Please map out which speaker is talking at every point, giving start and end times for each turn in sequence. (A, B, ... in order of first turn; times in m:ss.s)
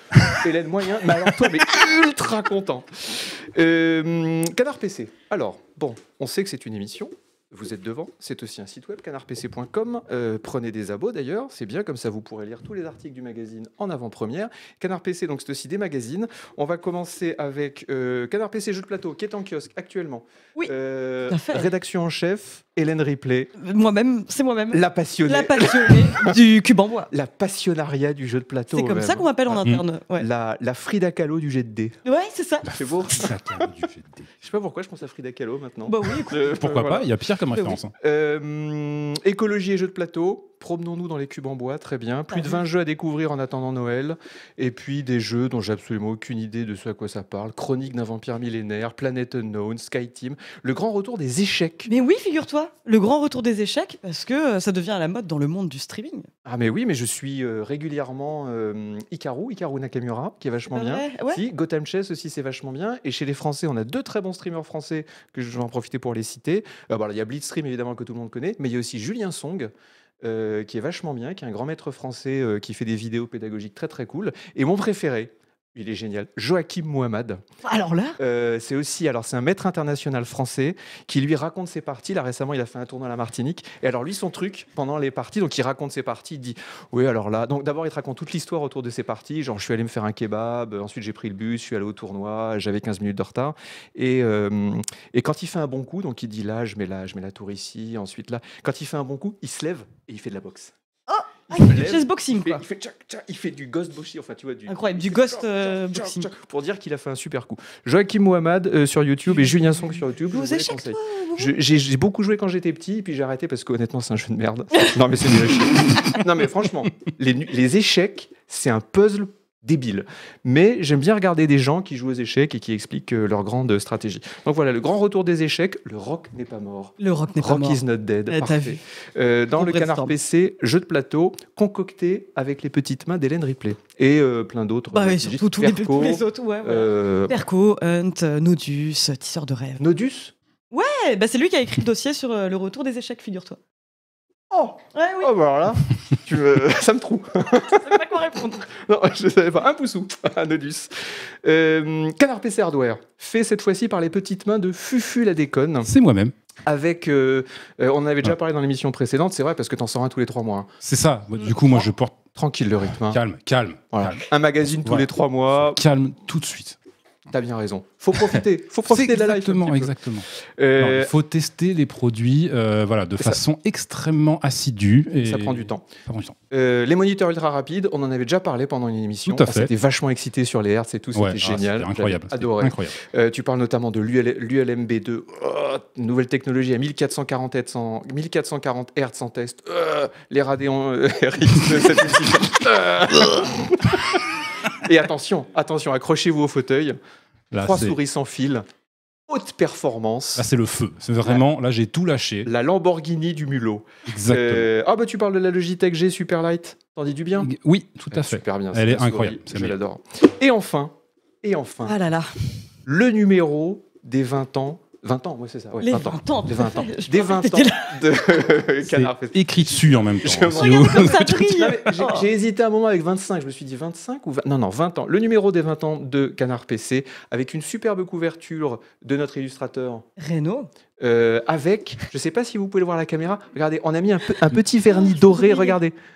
0:00.2-0:23.5 A
0:21.3-0:21.7 B
0:23.6-0:27.1 B
0:24.7-0:26.4 A
0:27.1-0:29.3 A
0:28.7-0:30.3 B
0:29.5-0:29.8 C
0:30.2-0:32.0 A
0:32.0-0:32.7 B
0:32.6-0:34.3 C
0:32.8-0:33.7 A
0:34.4-0:37.1 A
0:35.9-0:36.6 B
0:36.5-0:37.9 C
0:38.0-0:51.9 A
0:42.3-0:42.6 B
0:51.9-0:56.3 B
0:56.4-1:09.7 A
1:00.7-1:01.4 B
1:10.2-1:17.4 A
1:17.6-1:18.2 B
1:18.2-1:40.7 A
1:41.1-1:42.6 B
1:41.5-2:17.4 A
1:44.7-1:46.3 B
1:49.4-1:51.5 B
2:07.0-2:08.8 B
2:09.6-2:10.1 B
2:14.9-2:19.8 B
2:19.8-2:20.3 A
2:20.7-2:23.6 B
2:24.5-2:28.1 A
2:24.9-2:25.3 B
2:27.5-2:28.7 B
2:28.6-2:35.9 A
2:35.8-2:36.3 C
2:36.7-2:40.7 A
2:40.8-2:42.2 C
2:42.4-2:43.2 A
2:43.0-2:46.8 C
2:43.9-2:45.8 A
2:47.3-2:49.9 A
2:48.3-2:56.4 C
2:50.6-2:51.1 A
2:55.2-2:55.9 A
2:56.5-3:17.0 A
2:59.3-2:59.7 C
3:01.2-3:03.0 C
3:17.5-3:18.0 C
3:17.5-3:18.7 A
3:19.3-3:20.5 A
3:20.4-3:22.5 C
3:22.4-3:27.5 A
3:24.1-3:24.7 C
3:27.4-3:29.8 C
3:28.1-3:32.0 A
3:31.9-3:32.4 B
3:32.9-3:50.1 A
3:35.8-3:38.0 B
3:38.8-3:41.5 C
3:40.6-3:42.3 B
3:50.2-3:50.7 B
3:51.0-3:55.9 A
3:54.9-3:55.8 B